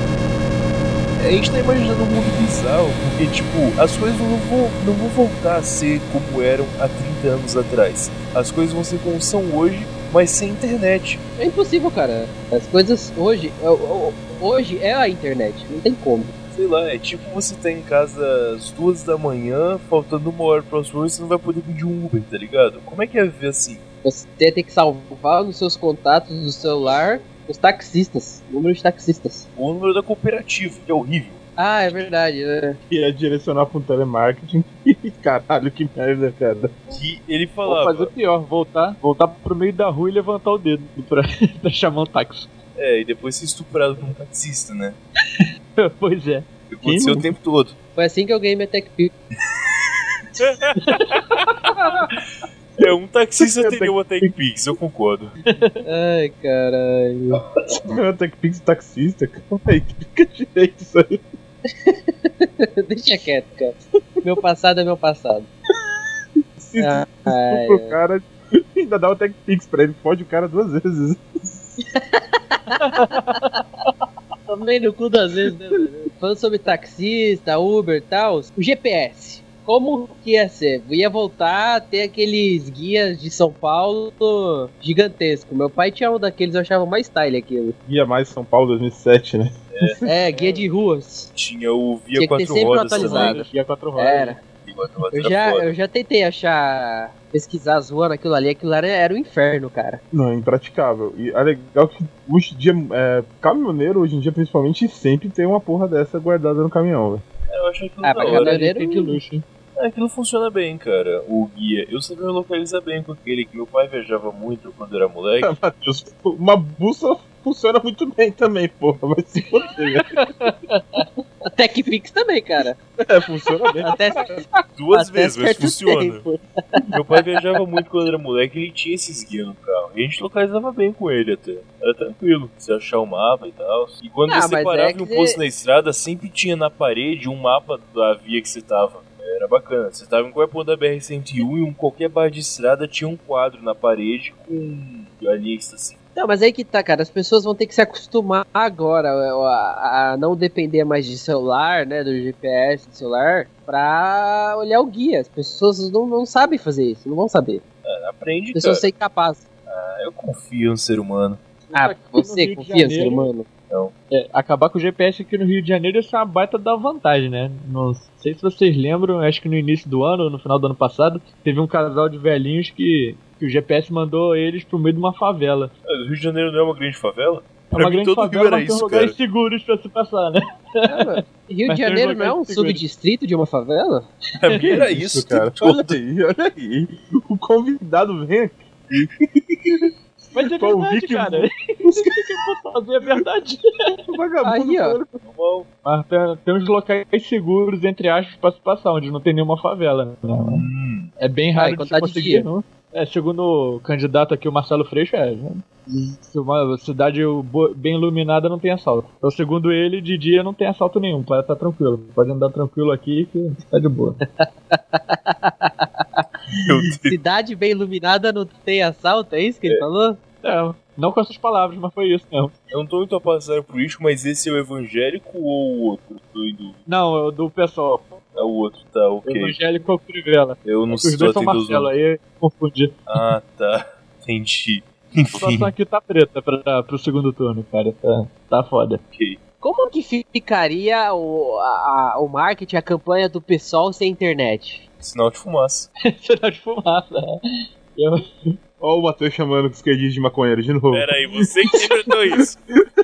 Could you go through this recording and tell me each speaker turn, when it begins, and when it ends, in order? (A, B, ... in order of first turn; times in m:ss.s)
0:01.2-0:11.2 A
0:11.4-0:16.3 B
0:16.5-0:23.8 A
0:24.0-0:29.4 B
0:29.6-0:32.1 A
0:31.6-0:32.8 B
0:32.9-0:36.8 C
0:36.9-0:38.1 A
0:37.6-0:42.5 D
0:42.8-0:45.0 A
0:45.4-0:46.4 D
0:46.7-0:47.7 A
0:46.8-0:47.3 C
0:47.9-0:49.1 B
0:50.4-0:51.2 A
0:50.8-0:51.5 D
0:52.8-0:55.3 A
0:53.4-0:54.3 C
0:55.4-0:55.8 D
0:55.8-0:57.4 B
0:57.8-1:01.2 C
1:01.8-1:05.5 B
1:06.6-1:11.2 C
1:06.8-1:08.0 B
1:11.8-1:13.4 B
1:12.8-1:13.6 D
1:14.5-1:27.8 B
1:27.8-1:30.1 C
1:29.7-1:30.0 A
1:30.0-1:31.3 B
1:30.2-1:30.7 D
1:31.3-1:33.4 A
1:32.2-1:34.4 B
1:32.9-1:34.4 D
1:34.6-1:35.7 A
1:35.1-1:40.0 B
1:40.1-1:47.2 C
1:47.5-1:48.6 A
1:48.0-1:49.2 B
1:48.2-1:49.4 D
1:49.8-1:55.5 A
1:55.4-2:00.2 C
2:00.4-2:02.8 B
2:03.0-2:04.2 C
2:03.8-2:06.8 B
2:04.8-2:06.2 A
2:06.9-2:26.0 A
2:14.3-2:15.4 B
2:26.1-2:37.6 B
2:37.8-2:38.9 A
2:38.5-2:39.4 B
2:39.7-2:41.4 A
2:41.7-2:43.3 D
2:41.7-2:43.5 B
2:44.1-2:55.7 D
2:55.9-2:59.2 A
2:57.7-3:02.8 D
3:00.8-3:04.1 B
3:04.4-3:06.0 A
3:04.5-3:04.8 D
3:04.6-3:08.6 C
3:10.3-3:14.0 D
3:10.6-3:12.2 C
3:14.1-3:15.2 C
3:14.4-3:15.0 B
3:15.2-3:15.7 A
3:15.8-3:20.6 D
3:20.4-3:21.1 A
3:21.2-3:34.2 D
3:21.6-3:22.5 B
3:34.4-3:36.2 B
3:36.6-3:37.2 A
3:37.1-3:40.2 B
3:40.4-3:42.6 D
3:42.7-3:46.8 A
3:46.9-3:48.2 D
3:48.3-3:49.6 A
3:49.2-3:53.0 D
3:50.6-3:51.9 A
3:53.1-3:55.7 A
3:55.3-3:59.0 D
3:59.6-4:04.8 B
4:05.0-4:05.9 A
4:06.1-4:07.4 D
4:07.9-4:08.2 D
4:08.8-4:12.4 C
4:10.9-4:12.6 A